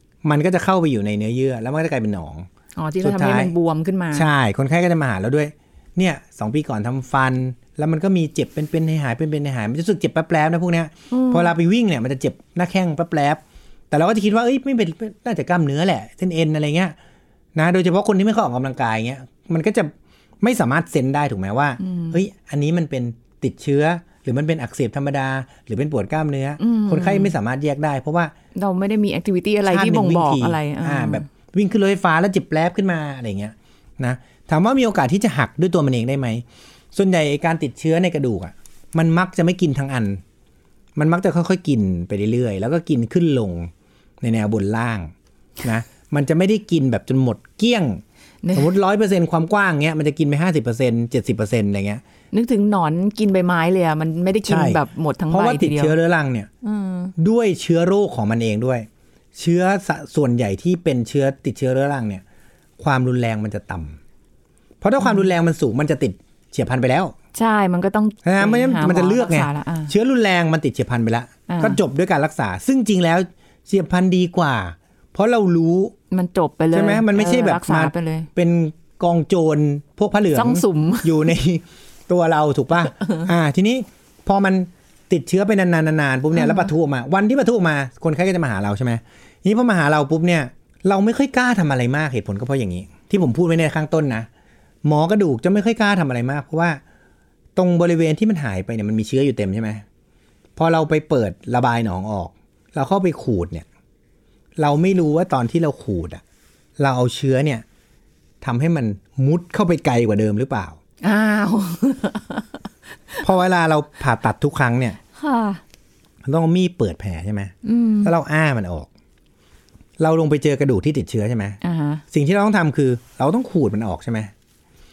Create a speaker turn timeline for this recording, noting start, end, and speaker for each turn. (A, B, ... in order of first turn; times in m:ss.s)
0:00.2-0:02.5 A
0:02.8-0:04.3 B
0:03.0-0:03.5 A
0:04.1-0:17.0 A
0:11.1-0:11.5 B
0:17.6-0:28.3 A
0:21.8-0:22.2 B
0:26.6-0:27.3 B
0:28.6-0:31.2 B
0:29.7-0:40.2 A
0:41.0-0:43.7 A
0:44.2-0:48.0 A
0:48.4-0:48.7 B
0:48.5-0:52.0 A
0:52.3-0:56.0 B
0:54.4-0:56.5 A
0:56.6-0:57.1 B
0:57.2-1:02.2 A
1:02.8-1:04.0 A
1:04.8-1:07.1 A
1:05.0-1:05.3 B
1:07.4-1:09.9 B
1:08.2-1:15.9 A
1:11.5-1:11.8 B
1:16.1-1:18.3 B
1:16.7-1:34.3 A
1:20.4-1:21.3 B
1:26.3-1:26.7 B
1:34.8-1:36.8 A
1:37.6-1:39.8 A
1:40.6-1:43.6 A
1:44.6-1:46.2 A
1:46.8-1:47.6 A
1:48.4-1:50.8 A
1:51.0-1:52.6 B
1:53.2-1:55.0 A
1:55.2-1:55.6 B
1:56.2-1:58.9 A
1:57.6-1:58.1 B
2:00.0-2:01.6 A
2:01.6-2:02.0 B
2:02.1-2:04.3 A